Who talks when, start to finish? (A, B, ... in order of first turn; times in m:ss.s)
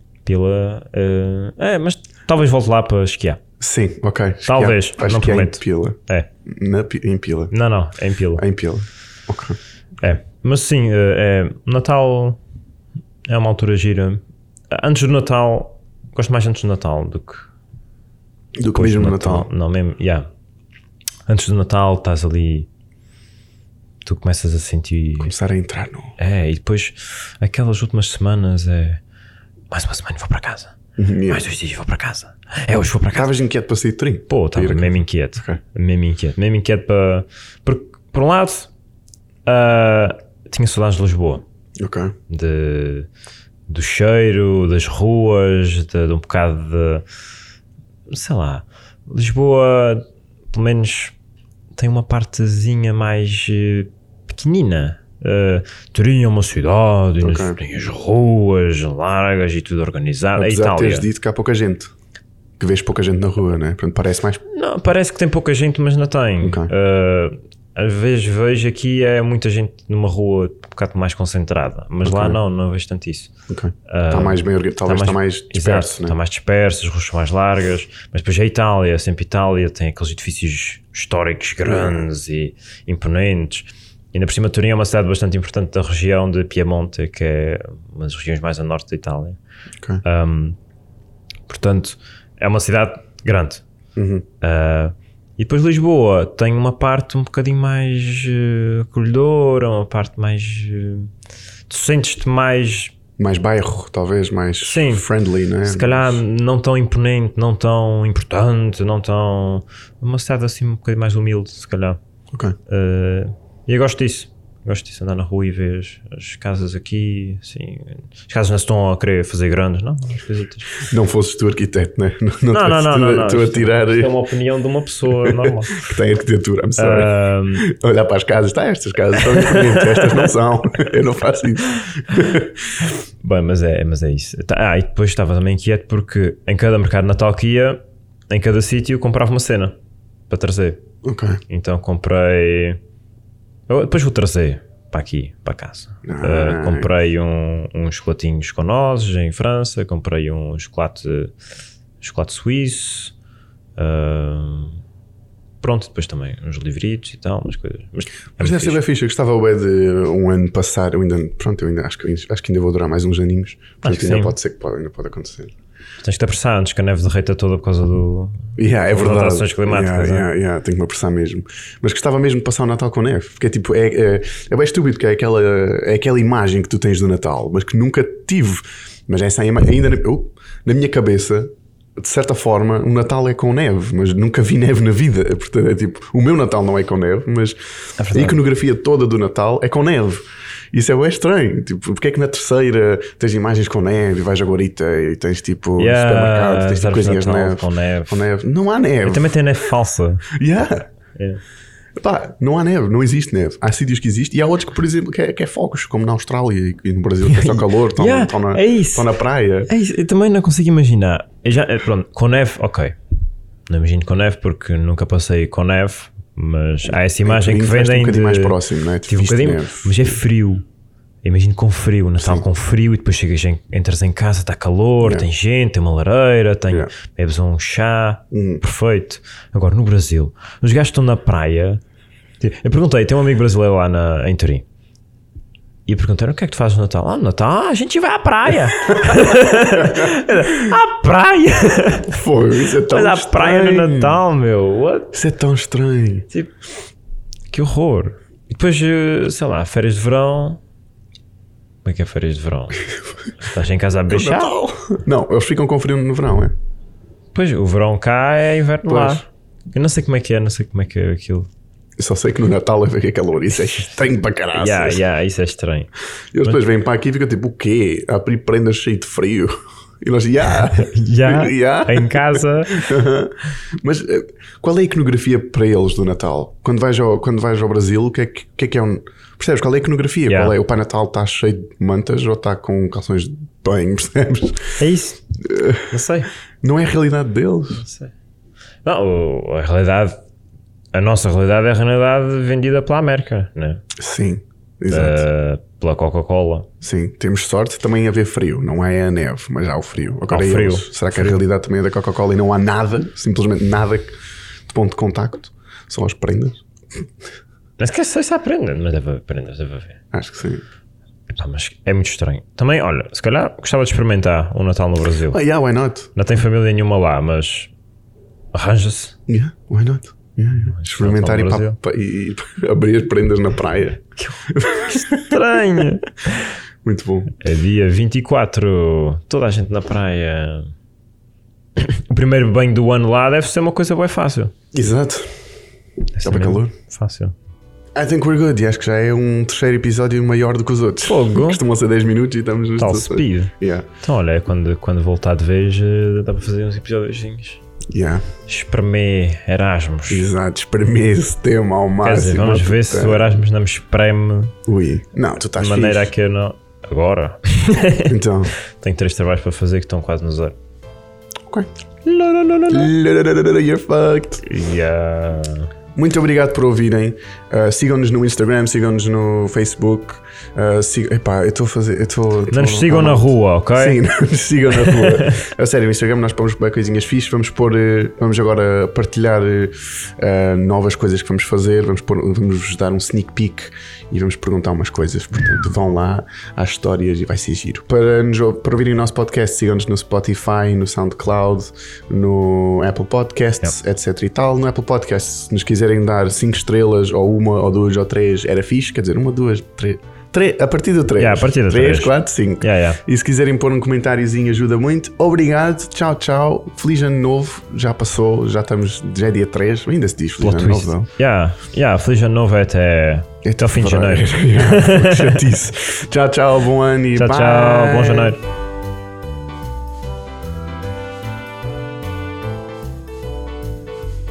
0:00.2-0:03.4 A
0:03.6-0:07.5 B
0:04.4-0:06.3 A
0:07.5-0:08.4 A
0:08.4-0:09.6 B
0:10.0-0:12.4 A
0:13.3-0:17.5 A
0:18.6-0:19.5 B
0:18.7-0:20.3 A
0:21.3-0:22.7 A
0:24.0-0:25.3 A
0:25.2-0:26.2 B
0:26.2-0:29.0 A
0:29.7-0:30.7 A
0:31.0-0:31.5 B
0:31.3-0:33.4 A
0:33.1-0:35.6 B
0:34.3-0:38.7 A
0:39.4-0:41.4 A
0:41.8-0:42.1 B
0:42.3-0:43.1 A
0:43.7-0:47.0 A
0:48.1-0:51.2 A
0:51.7-1:01.1 A
0:57.2-0:57.6 B
1:00.3-1:01.9 B
1:02.6-1:04.4 B
1:04.5-1:13.3 A
1:06.4-1:06.7 B
1:12.0-1:12.4 B
1:13.5-1:16.2 B
1:13.9-1:29.4 A
1:21.6-1:22.1 B
1:30.0-1:30.6 A
1:31.5-1:33.6 A
1:34.0-1:34.2 B
1:34.4-1:41.1 A
1:41.7-1:42.9 A
1:43.2-1:46.2 B
1:44.6-1:45.0 A
1:45.6-1:52.0 A
1:52.7-2:00.8 A
2:00.8-2:04.2 B
2:02.5-2:05.8 A
2:05.1-2:12.7 B
2:06.8-2:07.7 A
2:09.2-2:10.3 A
2:13.2-2:19.7 A
2:20.3-2:20.8 A
2:21.0-2:21.4 B
2:21.5-2:22.8 A
2:23.7-2:31.3 A
2:26.0-2:26.9 B
2:32.0-2:33.1 A
2:33.8-2:34.8 A
2:35.6-2:38.8 A
2:38.4-2:45.5 B
2:43.8-2:44.4 A
2:46.0-2:50.3 A
2:48.6-3:07.6 B
3:08.0-3:08.4 A
3:08.1-3:19.3 B
3:15.8-3:18.3 A
3:19.0-3:20.3 A
3:20.4-3:20.8 B
3:21.2-3:21.4 A
3:22.0-3:29.7 B
3:27.2-3:33.0 A
3:33.7-3:40.6 A
3:37.2-3:40.2 B
3:41.2-3:51.8 A
3:42.2-3:42.5 B
3:45.0-3:45.3 B
3:48.3-3:48.6 B
3:52.4-3:54.6 A
3:55.9-4:02.2 A
3:59.8-4:00.1 B
4:02.1-4:04.2 B
4:02.9-4:05.2 A
4:05.1-4:06.2 B
4:07.5-4:10.6 A
4:11.8-4:14.5 A
4:14.1-4:16.5 B
4:17.3-4:21.5 A
4:18.8-4:19.2 B
4:22.0-4:25.0 B
4:24.5-4:25.9 A
4:26.3-4:44.7 B
4:30.8-4:32.9 A
4:40.3-4:40.6 A
4:44.8-4:45.2 A
4:45.4-4:46.0 B
4:45.8-4:46.3 A
4:46.6-4:47.8 B
4:47.8-4:48.1 A
4:48.8-4:50.2 A
4:50.9-4:53.8 A
4:54.0-4:55.3 B
4:54.9-4:56.7 A
4:56.8-5:04.1 B
5:00.3-5:01.4 A
5:04.7-5:06.6 B
5:07.8-5:10.0 A
5:10.1-5:10.6 B
5:11.3-5:15.4 A
5:15.2-5:16.1 B
5:16.1-5:17.7 A
5:18.5-5:19.2 A
5:19.3-5:25.8 B
5:20.6-5:21.8 A
5:24.2-5:26.6 A
5:26.8-5:27.3 B
5:27.4-5:30.7 A
5:31.8-5:34.5 A
5:34.7-5:35.3 B
5:36.1-5:37.3 A
5:36.2-5:36.7 B
5:37.9-5:43.9 B
5:41.0-5:41.6 A
5:42.8-5:47.6 A
5:47.9-5:48.2 B
5:48.5-5:50.2 A
5:50.1-5:53.4 B
5:52.0-5:54.5 A
5:54.6-5:56.1 B
5:55.6-5:58.2 A
5:58.0-5:58.5 B
5:58.7-6:00.6 A
6:02.0-6:02.9 A
6:02.7-6:04.4 B
6:04.4-6:05.7 A
6:05.9-6:51.1 B
6:12.5-6:14.0 A
6:14.7-6:15.4 A
6:41.2-6:43.0 A
6:50.4-6:55.4 A
6:53.4-6:58.4 B
6:57.1-6:58.4 A